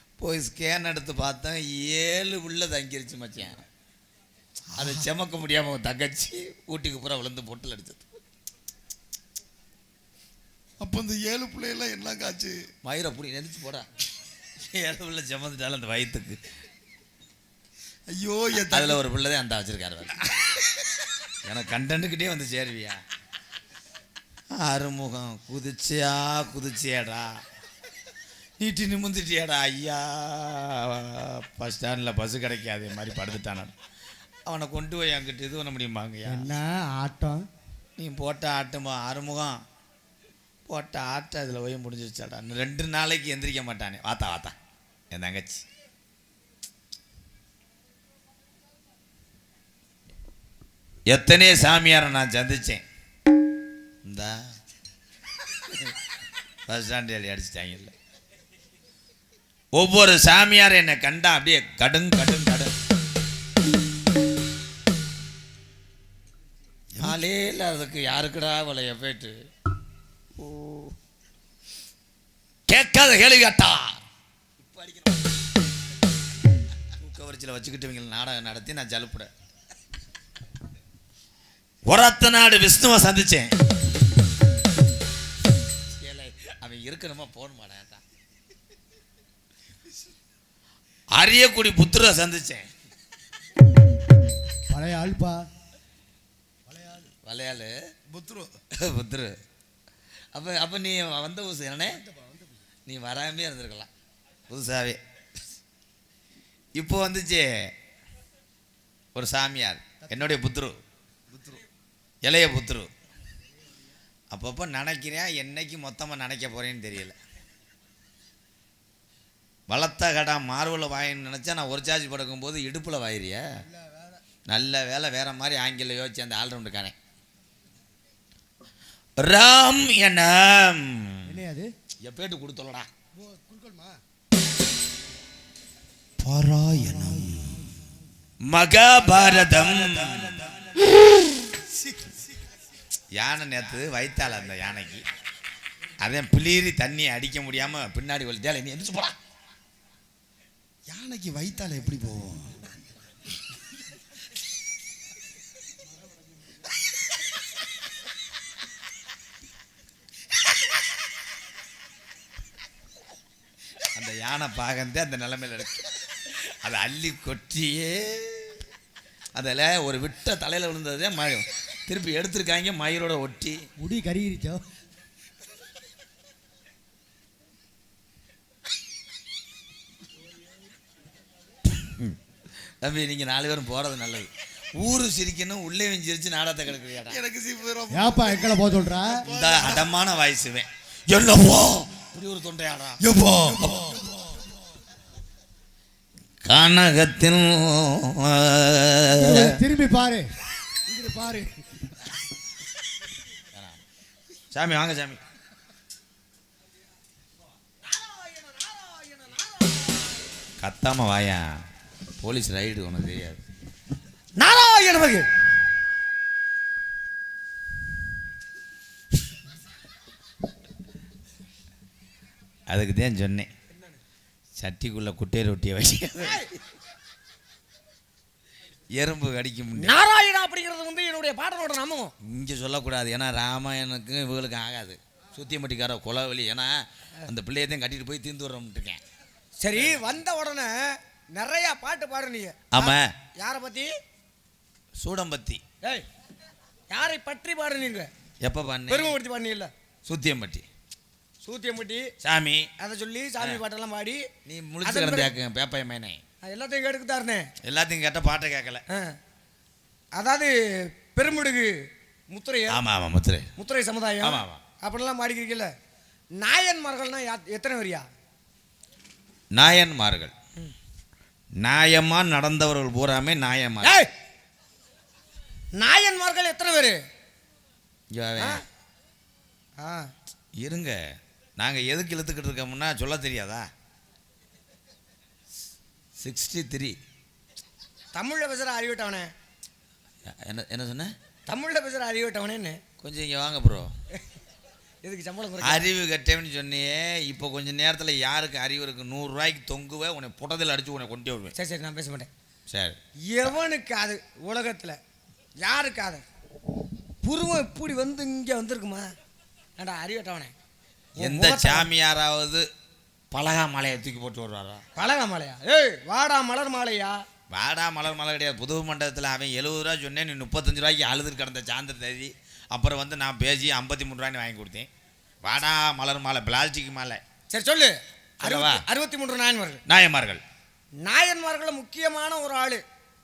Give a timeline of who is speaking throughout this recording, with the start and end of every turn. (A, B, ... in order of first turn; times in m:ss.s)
0:00.2-0:03.7 A
0:04.8-0:05.1 B
0:04.8-0:08.0 A
0:10.8-0:12.6 B
0:12.8-0:13.9 A
0:14.6-0:16.4 A
0:18.1-0:19.0 B
0:18.7-0:20.2 A
0:21.4-0:23.0 A
0:24.6-0:27.4 A
0:28.6-0:33.7 A
0:34.5-0:36.5 A
0:36.3-0:37.4 C
0:38.0-0:39.6 A
0:40.7-0:44.6 A
0:45.1-0:45.6 A
0:51.1-0:52.8 A
0:54.0-0:54.4 A
0:56.7-0:57.9 A
0:59.8-1:02.7 A
1:07.0-1:09.4 A
1:10.4-1:10.9 A
1:12.7-1:14.0 A
1:14.6-1:15.2 A
1:17.0-1:19.3 A
1:21.9-1:23.5 A
1:26.0-1:28.0 A
1:31.1-1:32.7 A
1:34.7-1:35.5 C
1:37.2-1:37.7 A
1:38.1-1:38.5 B
1:38.8-1:39.4 A
1:40.3-1:42.0 A
1:42.9-1:43.9 A
1:44.5-1:45.0 A
1:46.8-1:47.7 A
1:49.2-1:50.8 A
1:51.3-1:51.6 B
1:52.2-1:52.9 A
1:54.3-1:57.2 A
1:59.7-2:03.5 A
2:04.5-2:07.0 A
2:09.2-2:11.4 A
2:11.3-2:11.7 C
2:12.0-2:12.9 A
2:13.2-2:13.9 C
2:16.2-2:17.7 B
2:18.5-2:20.5 A
2:20.0-2:20.4 B
2:23.2-2:25.0 A
2:26.0-2:29.2 A
2:30.9-2:32.6 B
2:43.9-2:48.6 A
2:49.4-2:53.6 A
2:53.8-2:54.6 C
3:01.7-3:02.2 A
3:02.8-3:07.2 A
3:07.1-3:08.7 B
3:07.9-3:09.2 C
3:09.2-3:09.9 B
3:09.3-3:13.0 A
3:13.0-3:14.5 B
3:16.4-3:19.6 A
3:19.2-3:20.3 C
3:20.9-3:21.5 C
3:23.5-3:23.8 A
3:24.5-3:25.2 A
3:27.8-3:30.2 D
3:30.6-3:31.5 A
3:32.2-3:33.4 A
3:34.4-3:35.3 D
3:42.7-3:43.5 A
3:44.6-3:46.4 A
3:46.2-3:46.5 D
3:49.0-3:50.0 A
3:49.8-3:52.1 D
3:52.2-3:59.0 A
3:59.6-4:03.9 D
3:59.7-4:00.2 A
4:02.7-4:03.1 A
4:05.0-4:05.6 A
4:06.9-4:08.1 D
4:08.4-4:09.2 A
4:08.9-4:09.7 D
4:10.1-4:10.7 A
4:11.4-4:12.1 D
4:12.2-4:12.7 A
4:12.8-4:14.3 D
4:14.4-4:16.2 A
4:14.8-4:15.3 D
4:16.4-4:17.5 D
4:17.6-4:18.8 A
4:18.9-4:19.2 D
4:20.2-4:22.8 D
4:22.7-4:23.5 A
4:23.6-4:25.7 D
4:24.2-4:24.6 A
4:26.4-4:28.1 D
4:29.5-4:30.3 A
4:31.6-4:34.0 A
4:33.8-4:34.1 D
4:35.8-4:37.0 D
4:38.1-4:38.6 A
4:39.8-4:40.1 D
4:40.6-4:43.7 A
4:46.2-4:47.0 A
4:48.2-4:49.3 D
4:50.3-4:51.2 A
4:51.5-4:52.8 D
4:53.0-4:53.9 A
4:55.0-4:55.8 D
4:55.6-5:01.6 A
5:01.6-5:02.3 D
5:02.7-5:03.5 A
5:03.3-5:05.0 D
5:05.6-5:06.2 D
5:07.2-5:09.1 D
5:09.8-5:10.5 D
5:11.2-5:11.9 D
5:11.2-5:12.7 A
5:13.3-5:14.8 A
5:15.0-5:17.2 D
5:17.5-5:24.9 A
5:25.4-5:27.2 A
5:27.5-5:29.8 D
5:28.4-5:28.8 A
5:29.9-5:30.4 A
5:31.0-5:32.8 D